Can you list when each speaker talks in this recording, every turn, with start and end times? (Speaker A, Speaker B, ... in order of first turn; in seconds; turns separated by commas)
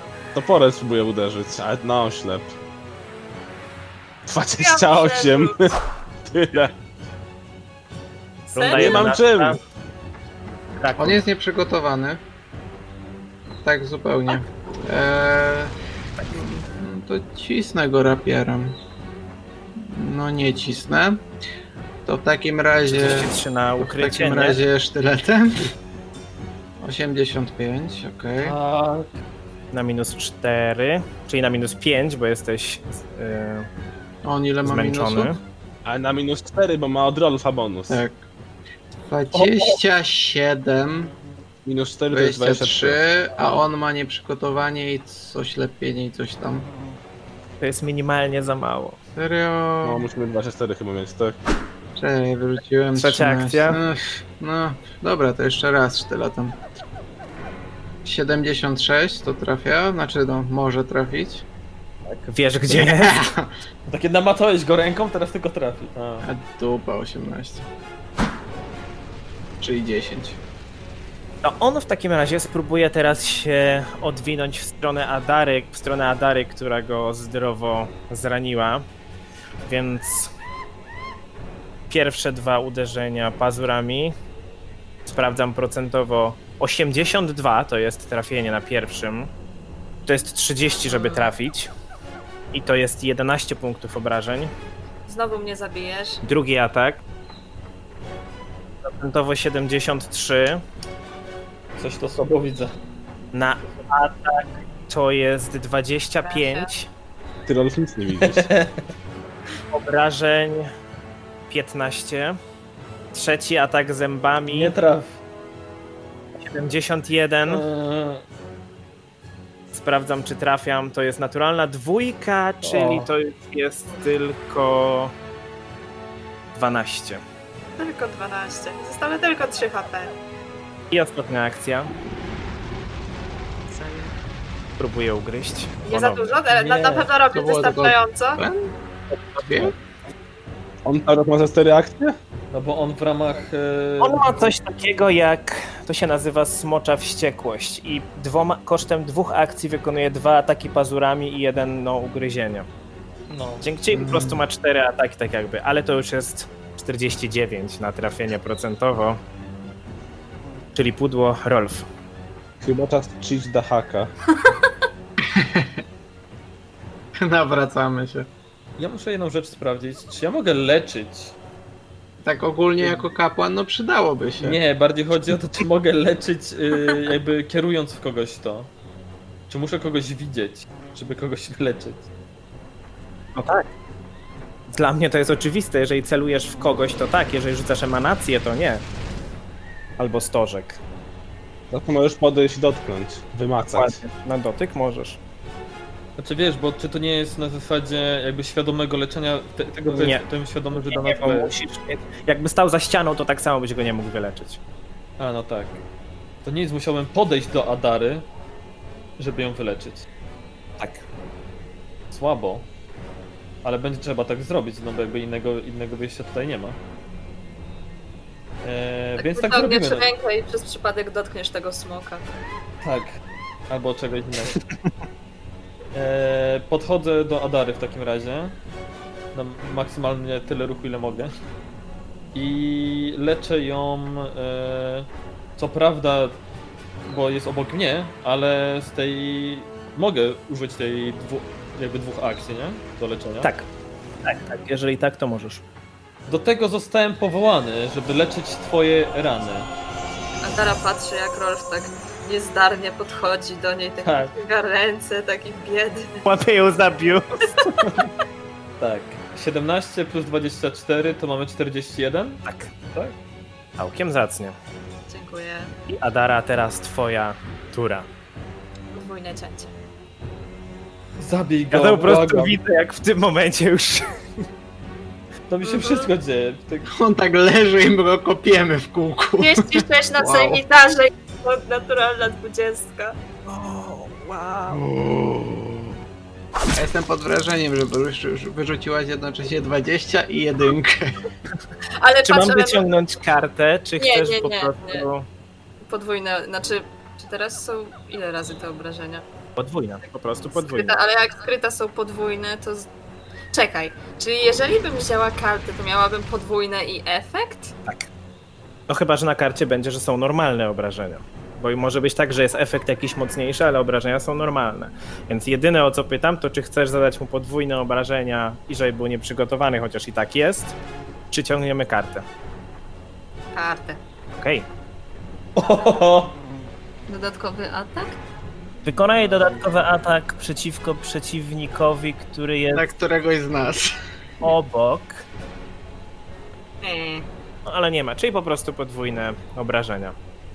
Speaker A: 0.3-2.5, Speaker A: 4.3-6.7, Speaker B: 4.6-5.6, Speaker C: 8.5-9.6, Speaker B: 8.5-9.1, Speaker A: 8.7-9.6, Speaker C: 10.8-11.2, Speaker D: 11.0-12.2, Speaker D: 13.6-15.7, Speaker D: 16.3-18.8, Speaker D: 19.8-21.2, Speaker D: 22.1-25.7, Speaker C: 22.8-24.6, Speaker D: 26.8-28.6, Speaker E: 28.4-29.2, Speaker C: 29.7-33.7, Speaker D: 34.2-35.4, Speaker C: 34.6-35.4, Speaker A: 35.9-38.0, Speaker D: 37.9-38.2, Speaker D: 39.0-41.1, Speaker E: 39.3-39.8, Speaker A: 41.7-43.0, Speaker D: 42.1-46.7, Speaker C: 47.6-49.0, Speaker D: 49.2-50.1, Speaker A: 49.8-51.4, Speaker D: 52.0-56.6, Speaker C: 53.0-53.8, Speaker D: 58.0-61.5, Speaker C: 62.1-63.3, Speaker D: 62.7-63.5, Speaker E: 63.9-66.3, Speaker D: 66.2-67.7, Speaker D: 69.6-70.4, Speaker C: 71.4-78.8, Speaker C: 79.7-80.3, Speaker C: 81.9-84.2, Speaker C: 85.1-89.3, Speaker C: 90.1-91.7, Speaker B: 90.9-91.3, Speaker C: 92.5-94.5, Speaker B: 95.1-96.2, Speaker C: 96.2-97.0, Speaker C: 98.8-100.6, Speaker E: 101.8-102.7, Speaker C: 103.3-106.9, Speaker B: 106.2-106.7, Speaker A: 107.5-108.5, Speaker E: 108.2-108.9, Speaker C: 109.7-110.7, Speaker C: 111.5-112.4, Speaker C: 113.1-114.7, Speaker E: 114.5-115.2, Speaker C: 116.4-117.6, Speaker E: 117.5-118.2, Speaker C: 119.7-125.1, Speaker E: 122.6-123.1, Speaker C: 126.5-127.2, Speaker B: 127.8-130.1, Speaker C: 130.9-131.9, Speaker B: 133.7-134.2, Speaker C: 134.8-136.2, Speaker B: 135.9-138.4, Speaker E: 136.5-137.1, Speaker D: 137.3-138.7, Speaker C: 139.4-139.7, Speaker D: 139.4-139.7, Speaker A: 140.8-142.1, Speaker E: 142.5-144.5, Speaker C: 144.0-152.7, Speaker E: 153.3-153.7, Speaker C: 153.6-159.2, Speaker D: 153.9-154.4, Speaker C: 160.8-161.9, Speaker A: 162.6-164.1, Speaker D: 165.3-165.7, Speaker D: 167.2-168.3, Speaker E: 168.8-171.3, Speaker D: 172.2-174.6, Speaker E: 172.8-173.1, Speaker E: 174.4-178.7, Speaker E: 179.5-182.1, Speaker C: 183.3-183.7, Speaker C: 184.7-188.8, Speaker C: 190.0-190.8, Speaker A: 191.7-194.0, Speaker C: 193.8-195.2, Speaker E: 196.2-201.5, Speaker C: 199.9-200.2, Speaker C: 200.9-204.6, Speaker E: 205.2-205.8, Speaker E: 206.4-208.3, Speaker E: 209.2-210.1, Speaker C: 210.8-211.0, Speaker E: 212.1-212.7, Speaker E: 213.6-216.8, Speaker E: 218.6-220.1, Speaker B: 219.2-222.2, Speaker E: 222.8-223.2, Speaker E: 223.7-224.6, Speaker E: 225.9-228.6, Speaker E: 229.3-231.3, Speaker E: 232.3-236.4, Speaker E: 237.1-243.5, Speaker C: 243.4-243.7, Speaker C: 244.2-245.6, Speaker E: 246.3-249.7, Speaker B: 250.4-256.2, Speaker E: 254.0-254.3, Speaker C: 256.2-257.7, Speaker E: 257.8-258.1, Speaker E: 258.8-263.2, Speaker C: 262.4-262.7, Speaker C: 263.8-264.6, Speaker B: 265.1-265.7, Speaker C: 265.9-268.1, Speaker B: 268.9-269.7, Speaker E: 271.2-272.6, Speaker C: 271.7-274.1, Speaker E: 275.5-276.9, Speaker B: 275.6-276.1, Speaker D: 276.9-280.6, Speaker B: 279.4-283.2, Speaker C: 283.5-284.8, Speaker D: 284.7-285.9, Speaker D: 286.7-291.1, Speaker B: 292.0-292.9, Speaker C: 292.2-295.3, Speaker B: 294.0-295.1, Speaker B: 295.8-299.2, Speaker C: 299.6-301.0, Speaker B: 300.5-302.9, Speaker B: 303.5-307.8, Speaker C: 308.9-320.8, Speaker C: 321.3-322.2, Speaker B: 323.5-324.0, Speaker C: 324.3-324.7, Speaker E: 325.6-326.4, Speaker B: 325.6-326.0, Speaker B: 327.1-328.2, Speaker C: 328.8-332.9, Speaker D: 332.7-333.9, Speaker C: 334.4-335.2, Speaker B: 336.8-337.3, Speaker C: 337.6-340.2